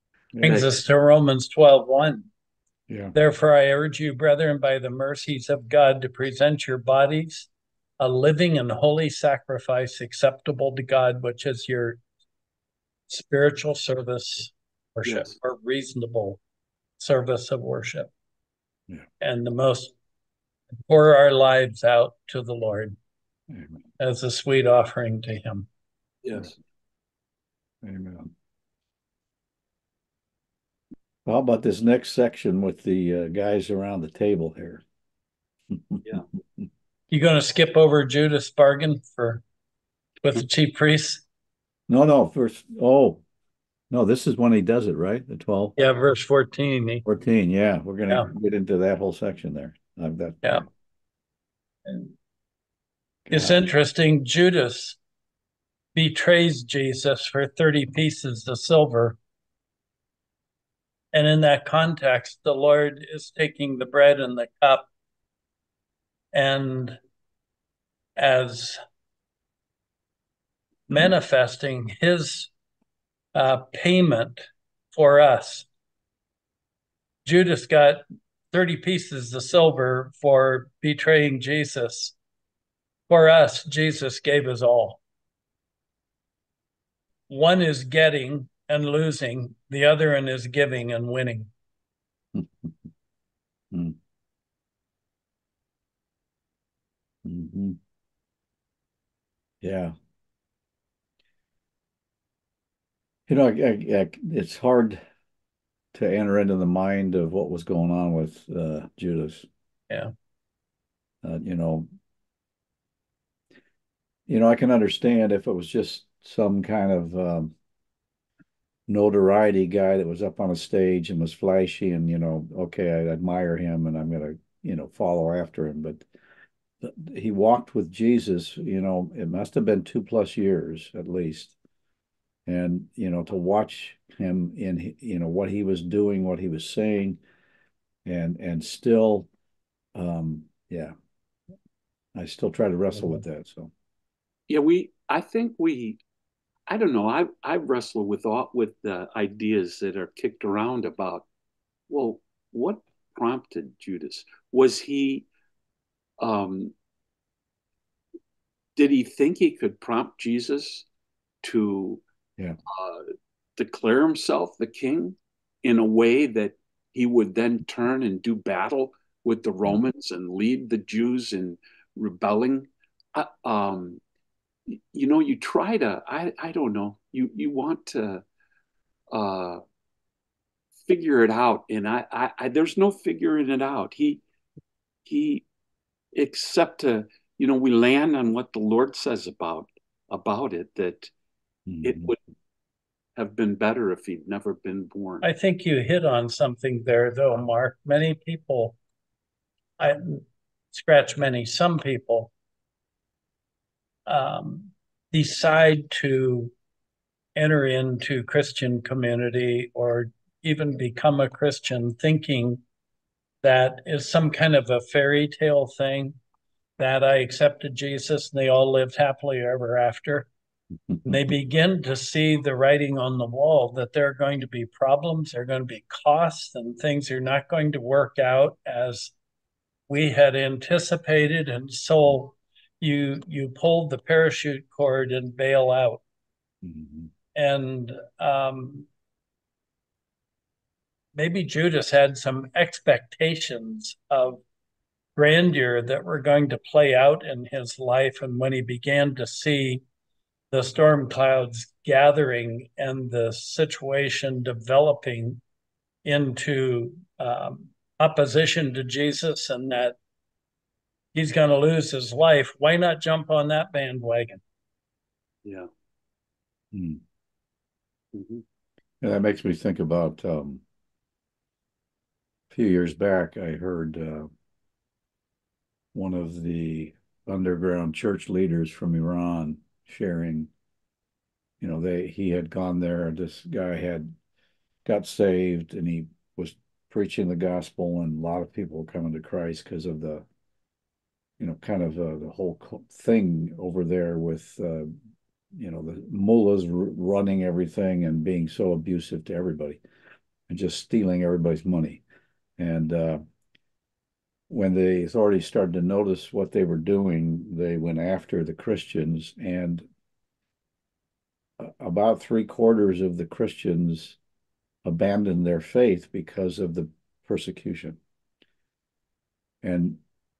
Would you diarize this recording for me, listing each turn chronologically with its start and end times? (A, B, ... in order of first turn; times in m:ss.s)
0:00.3-0:00.6 A
0:00.4-0:02.3 B
0:00.4-0:00.7 C
0:02.9-0:03.2 A
0:03.1-0:07.5 B
0:08.0-0:12.0 B
0:13.1-0:16.4 B
0:15.0-0:15.3 C
0:17.0-0:18.1 B
0:19.2-0:19.9 B
0:20.8-0:23.0 B
0:23.5-0:23.8 A
0:24.0-0:25.7 B
0:26.2-0:26.6 C
0:27.8-0:28.3 A
0:31.3-0:34.8 A
0:35.7-0:36.7 A
0:37.1-0:39.4 B
0:40.2-0:41.2 B
0:41.9-0:43.2 A
0:43.9-0:45.8 A
0:45.8-0:47.0 B
0:47.0-0:50.6 A
0:51.9-0:52.2 B
0:53.3-0:53.6 A
0:53.3-0:55.0 B
0:56.0-0:59.2 B
1:01.1-1:04.9 B
1:06.3-1:07.0 B
1:08.2-1:08.8 B
1:10.9-1:12.5 B
1:13.3-1:15.7 B
1:17.2-1:22.2 B
1:23.1-1:25.0 B
1:27.3-1:31.5 B
1:32.3-1:32.8 A
1:37.2-1:37.8 A
1:39.6-1:39.9 A
1:43.3-1:45.0 A
1:45.9-1:49.5 A
1:51.2-1:51.9 A
1:54.3-1:57.5 A
1:58.9-2:06.1 A
2:06.8-2:11.6 A
2:12.5-2:17.2 A
2:18.1-2:19.3 A
2:20.0-2:20.9 A
2:22.2-2:23.7 A
2:24.5-2:26.0 C
2:26.7-2:31.3 C
2:31.9-2:35.3 C
2:36.2-2:36.7 C
2:38.8-2:40.9 C
2:41.4-2:42.0 C
2:42.7-2:54.0 C
2:54.7-2:58.2 C
2:59.1-2:59.6 C
3:00.9-3:04.2 C
3:05.0-3:05.4 C
3:06.1-3:11.1 C
3:11.7-3:12.1 A
3:11.8-3:12.2 C
3:13.2-3:15.3 C
3:15.2-3:18.8 B
3:19.8-3:22.3 B
3:24.1-3:26.5 B
3:27.4-3:32.6 B
3:33.4-3:36.2 B
3:36.8-3:40.3 B
3:41.0-3:49.1 B
3:49.9-3:56.0 B
3:56.6-3:57.1 A
3:57.4-3:58.9 B
4:01.2-4:04.4 B
4:05.2-4:09.8 B
4:10.5-4:15.4 B
4:16.0-4:20.0 B
4:21.1-4:24.4 B
4:26.7-4:27.0 A
4:28.1-4:28.4 C
4:29.0-4:30.6 A
4:32.5-4:34.3 A
4:35.9-4:40.5 A
4:41.6-4:44.1 A
4:44.8-4:50.2 A
4:51.4-4:54.9 A
4:55.5-4:59.8 A
5:00.5-5:02.0 A
5:02.6-5:03.2 A
5:04.5-5:09.8 A
5:11.6-5:14.2 A
5:14.8-5:18.0 A
5:19.6-5:20.0 A